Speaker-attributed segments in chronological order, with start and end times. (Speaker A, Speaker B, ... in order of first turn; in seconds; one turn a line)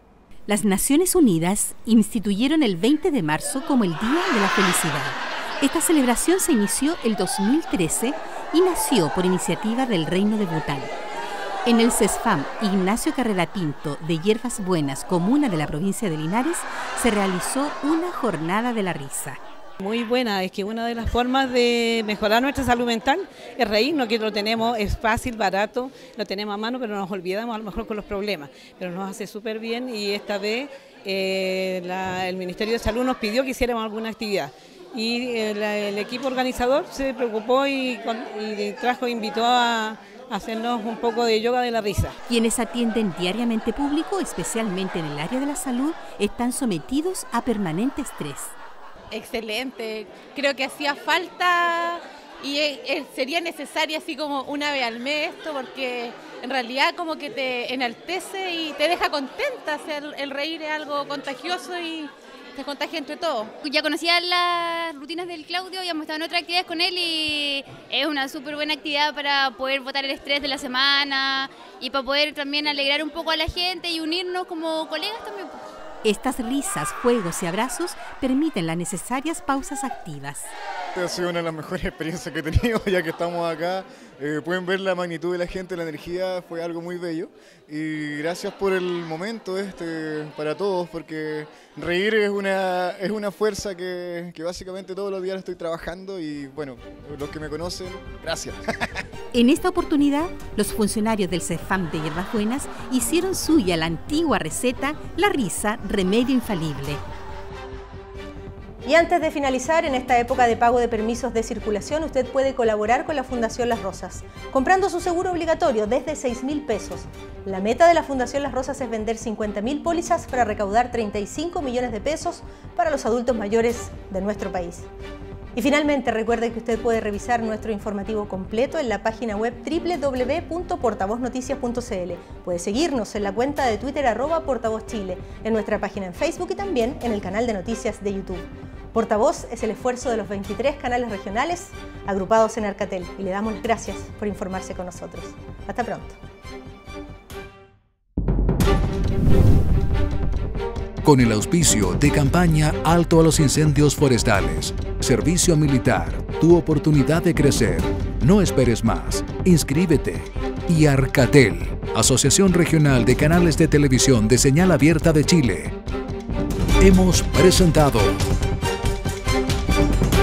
Speaker A: 0.5-10.9
Speaker A: 11.7-19.4
Speaker B: 19.8-42.2
Speaker A: 42.3-48.5
Speaker C: 49.1-63.5
Speaker D: 63.6-75.6
Speaker A: 76.0-80.5
Speaker E: 80.9-99.0
Speaker A: 99.3-107.0
Speaker F: 108.8-124.9
Speaker F: 125.5-146.2
Speaker G: 151.0-165.7
Speaker G: 166.8-168.2